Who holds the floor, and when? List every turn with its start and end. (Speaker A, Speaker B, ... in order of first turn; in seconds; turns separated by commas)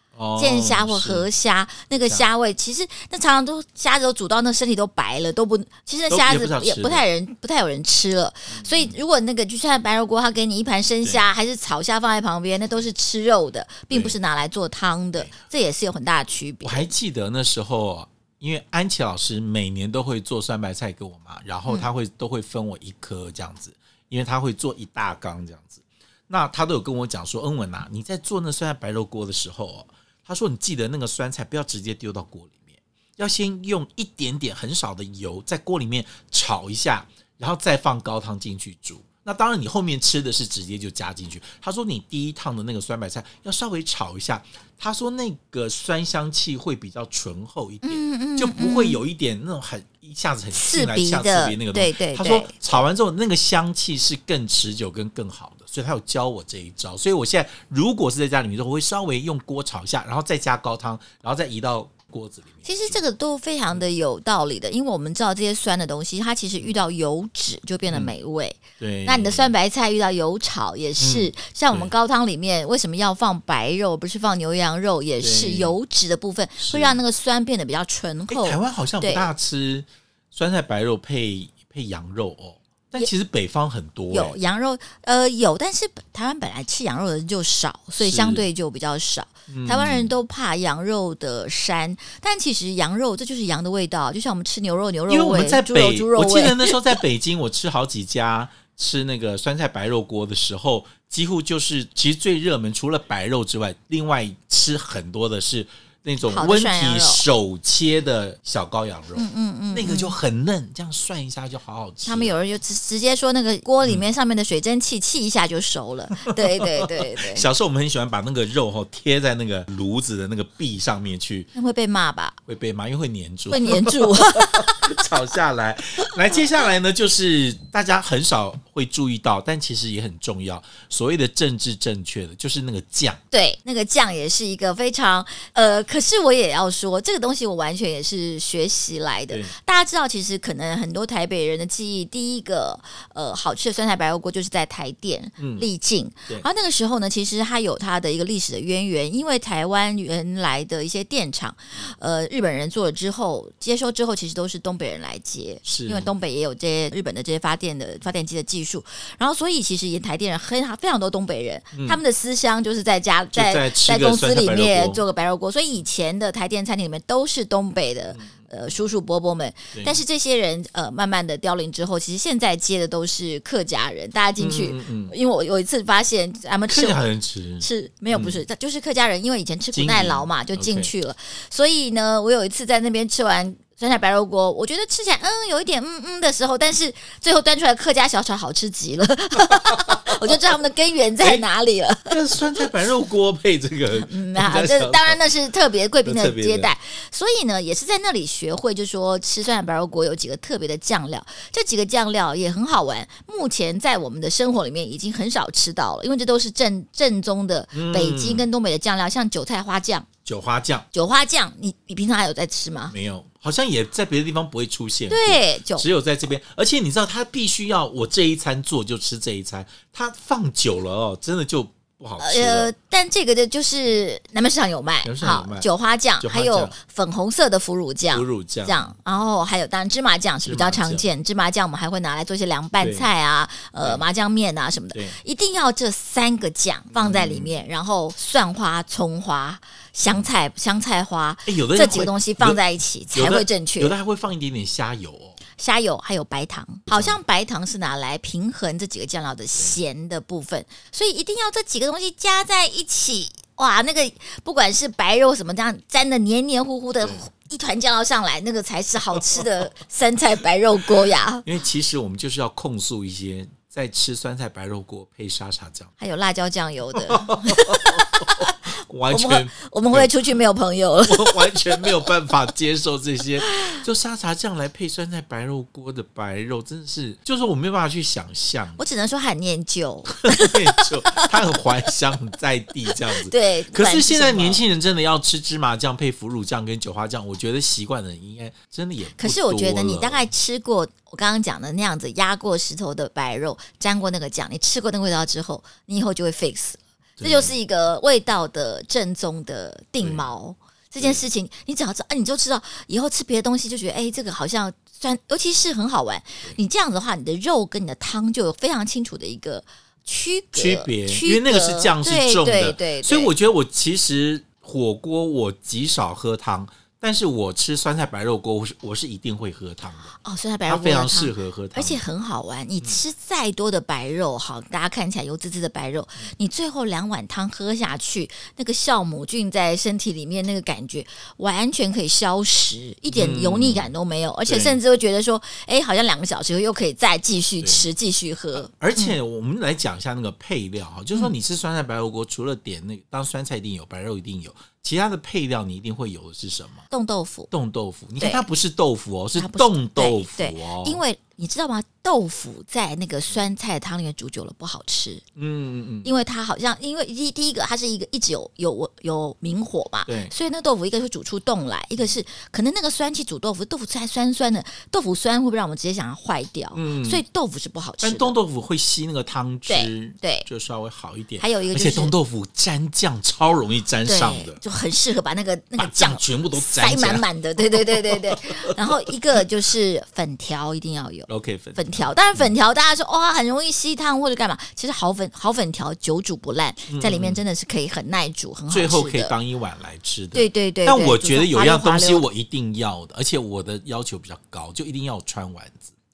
Speaker A: 0.1-1.3, Speaker B: 0.4-16.9, Speaker A: 1.9-2.3, Speaker A: 6.1-7.0, Speaker A: 8.5-9.0, Speaker A: 13.9-14.2, Speaker A: 16.6-63.0, Speaker B: 47.8-49.0, Speaker B: 50.5-52.8, Speaker B: 62.6-79.3, Speaker A: 67.9-68.1, Speaker A: 68.8-69.5, Speaker A: 71.0-71.9, Speaker A: 75.2-75.8, Speaker A: 76.6-77.0, Speaker A: 78.3-84.4, Speaker B: 84.1-96.8, Speaker A: 88.0-88.5, Speaker A: 89.5-90.2, Speaker A: 95.1-112.3, Speaker B: 106.2-107.3, Speaker B: 109.2-110.2, Speaker B: 112.0-117.5, Speaker A: 116.4-121.5, Speaker B: 121.5-122.4, Speaker A: 122.5-133.2, Speaker B: 123.5-124.8, Speaker B: 133.3-177.1, Speaker A: 145.4-145.7, Speaker A: 155.7-156.1, Speaker A: 161.7-162.0, Speaker A: 163.3-165.0, Speaker A: 169.7-170.0, Speaker A: 174.4-175.2, Speaker A: 176.7-178.4, Speaker B: 177.6-192.7, Speaker A: 179.7-180.9, Speaker A: 189.7-190.2, Speaker A: 192.1-195.2, Speaker B: 194.0-210.1, Speaker A: 196.0-196.7, Speaker A: 207.7-208.5, Speaker A: 210.2-210.9, Speaker B: 210.9-212.9, Speaker A: 212.9-222.7, Speaker B: 215.1-215.9, Speaker B: 222.2-243.9, Speaker A: 225.0-225.7, Speaker A: 226.2-226.7, Speaker A: 228.1-228.9, Speaker A: 230.4-231.1, Speaker A: 232.8-233.1, Speaker A: 236.9-237.5, Speaker A: 241.4-242.6, Speaker A: 243.1-245.4, Speaker B: 245.6-261.4, Speaker A: 246.9-247.2, Speaker A: 261.4-265.9, Speaker B: 266.0-268.5, Speaker A: 267.0-270.1, Speaker B: 269.1-272.1, Speaker A: 271.1-278.8, Speaker B: 273.4-273.8, Speaker B: 278.8-281.3, Speaker A: 280.3-290.3, Speaker B: 283.2-284.6, Speaker B: 289.2-313.3, Speaker A: 297.2-297.6, Speaker A: 300.0-300.3, Speaker A: 310.6-320.1, Speaker B: 320.2-339.2, Speaker A: 320.7-322.0, Speaker A: 333.1-333.9, Speaker A: 334.5-334.8, Speaker A: 337.6-337.9, Speaker A: 338.6-346.8, Speaker B: 346.9-347.5, Speaker A: 347.5-351.0, Speaker B: 348.2-348.4, Speaker B: 349.4-355.2, Speaker A: 355.4-356.1, Speaker B: 356.0-368.4, Speaker A: 360.1-360.3, Speaker A: 366.8-367.2, Speaker A: 368.0-374.6, Speaker B: 369.7-370.5, Speaker B: 371.4-372.1, Speaker B: 374.1-389.3, Speaker A: 375.8-377.2, Speaker A: 377.9-378.7, Speaker A: 381.3-382.5, Speaker A: 386.9-387.4, Speaker A: 388.7-395.9, Speaker B: 390.3-392.3